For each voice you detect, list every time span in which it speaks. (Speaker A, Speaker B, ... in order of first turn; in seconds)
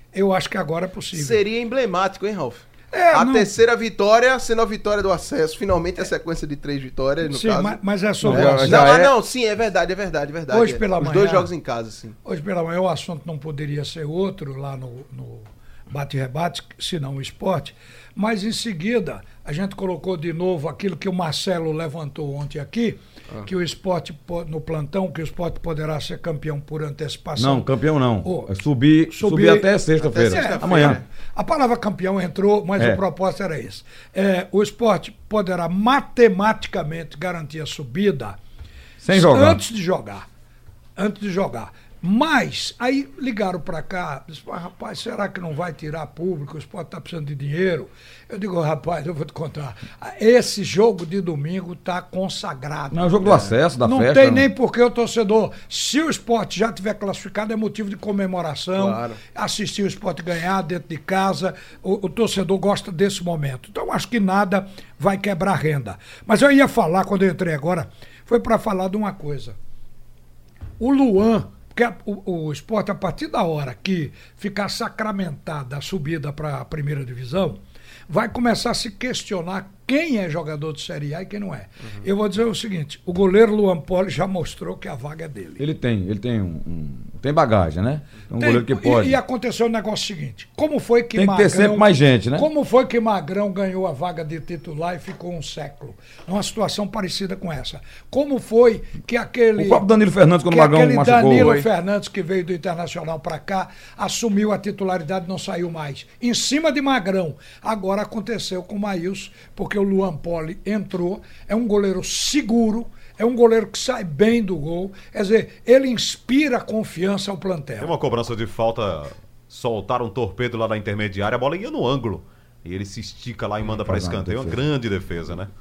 Speaker A: 0.1-1.4, 2.9-3.5, 7.3-8.9, 10.5-11.5, 12.2-27.7, 28.2-28.5, 29.1-29.7, 30.2-38.4, 39.1-40.3, 41.0-69.5, 70.8-85.6, 88.3-99.9, 100.5-117.9
Speaker B: 1.1-12.2, 30.0-31.1, 58.8-59.2
Speaker C: 8.2-9.1, 27.4-31.0, 39.0-39.6, 52.9-54.5, 85.6-89.2, 91.2-92.5, 99.6-101.6, 123.7-124.6
Speaker D: 117.8-125.5